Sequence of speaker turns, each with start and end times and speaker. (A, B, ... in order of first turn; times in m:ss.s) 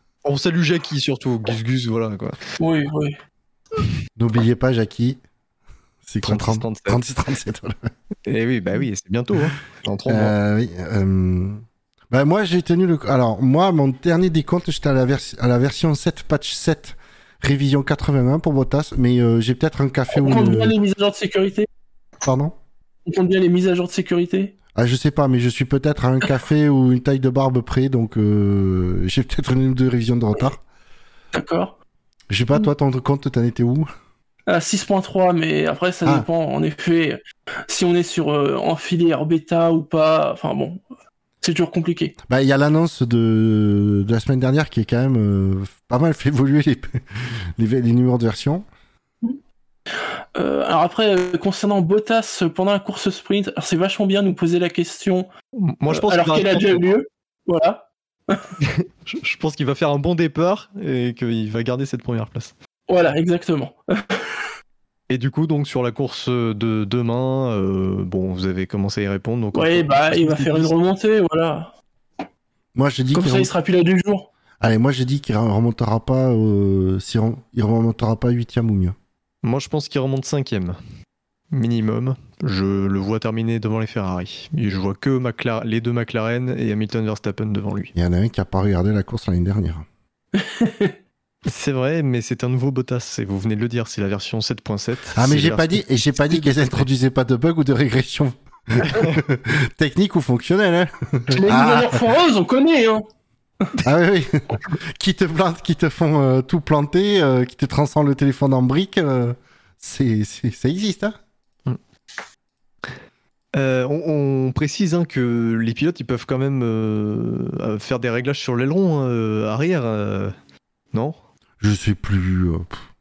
0:00.2-0:02.4 A
0:02.6-0:03.2 B
0:04.2-0:05.2 C
0:06.0-0:07.9 C
0:06.2-0:07.0 A
0:08.3-0:10.3 A
0:10.1-0:20.8 C
0:20.1-0:21.7 B
0:22.2-0:22.6 C
0:23.1-0:24.6 B
0:24.7-0:30.6 C
0:31.4-0:31.8 B
0:32.3-0:33.9 C
0:34.5-0:40.8 B
0:41.4-0:42.2 B
0:42.3-0:48.7 C
0:50.4-0:55.3 B
0:55.6-0:56.9 A
0:55.9-0:58.5 B
0:58.6-1:02.5 A
1:02.9-1:04.5 B
1:05.1-1:10.7 A
1:09.6-1:11.7 B
1:12.8-1:13.5 C
1:13.1-1:14.3 B
1:14.6-1:19.0 C
1:19.4-1:20.8 A
1:21.5-1:27.9 A
1:28.0-1:29.9 C
1:30.3-1:31.0 B
1:31.5-1:36.9 A
1:35.2-1:42.1 C
1:38.9-1:39.2 A
1:41.3-1:43.0 B
1:43.8-1:51.2 C
1:53.5-2:00.4 A
2:00.9-2:01.2 A
2:01.6-2:02.8 C